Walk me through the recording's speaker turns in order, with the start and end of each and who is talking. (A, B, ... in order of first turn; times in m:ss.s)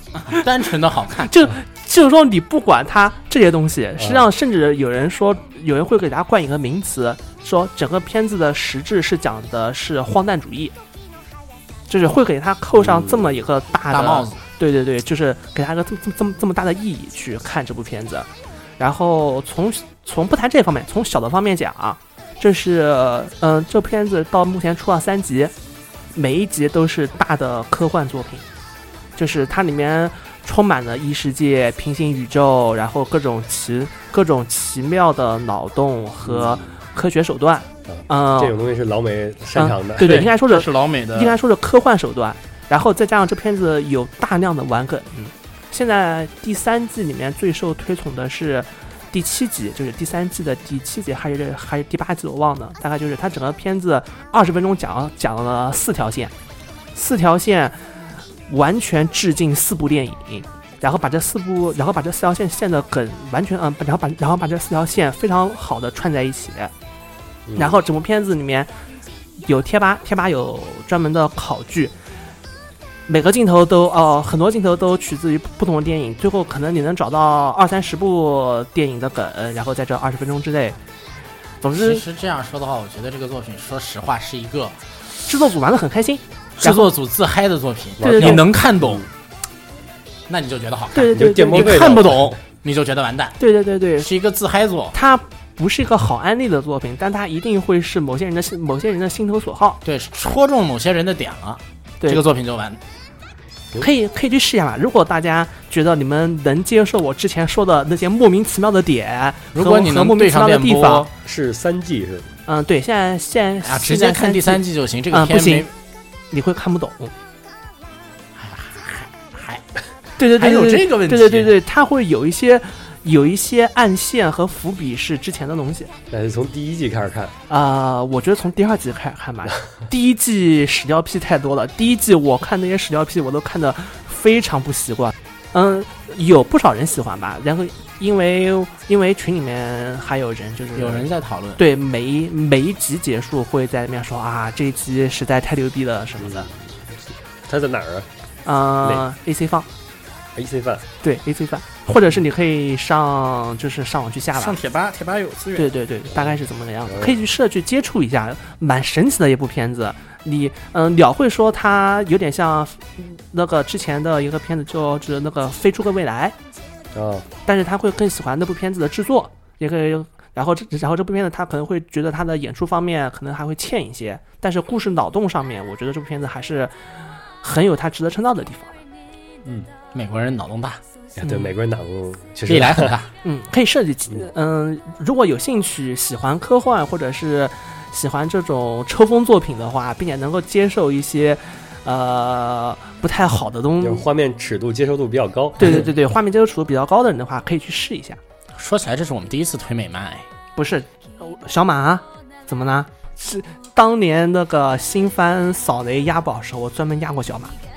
0:00.2-0:01.4 A
0:01.3-0:10.7 B
0:11.9-0:25.5 B
0:12.8-0:13.5 C
0:13.9-0:14.4 A
0:26.2-0:28.5 B
0:29.2-0:38.5 B
0:36.2-0:36.8 C
0:37.9-0:40.2 C
0:39.6-0:56.3 B
0:40.0-0:41.4 A
0:56.9-0:57.9 B
0:58.5-1:06.7 B
1:07.5-1:07.8 C
1:07.6-1:08.7 B
1:09.4-1:11.9 B
1:13.1-1:20.8 B
1:21.6-1:22.0 B
1:21.8-1:24.8 A
1:25.3-1:26.9 B
1:26.6-1:29.0 A
1:28.0-1:29.1 C
1:28.0-1:28.4 B
1:30.3-1:33.4 A
1:30.9-1:31.8 B
1:31.1-1:32.3 C
1:33.4-1:34.1 B
1:34.0-1:35.0 A
1:34.9-1:39.8 B
1:39.8-1:42.8 A
1:43.8-1:51.1 B
1:49.5-1:51.1 A
1:51.2-1:52.4 C
1:52.5-1:55.7 B
1:53.6-1:55.7 A
1:56.3-1:57.1 B
1:58.4-1:59.6 A
2:00.2-2:05.9 B
2:00.4-2:01.5 A
2:06.1-2:07.3 C
2:07.5-2:26.5 B
2:20.8-2:21.6 A
2:26.2-2:28.1 C
2:28.5-2:29.7 B
2:30.4-2:30.9 C
2:31.0-2:34.6 B
2:34.4-2:35.7 A
2:35.6-2:46.4 B
2:36.9-2:37.2 C
2:46.9-2:47.3 C
2:47.5-2:58.8 B
2:59.9-3:00.8 A
3:01.2-3:03.0 C
3:01.2-3:01.5 B
3:02.5-3:03.1 A
3:03.2-3:14.0 B
3:13.8-3:15.9 C
3:15.6-3:18.2 B
3:18.6-3:20.3 A
3:20.6-3:27.5 B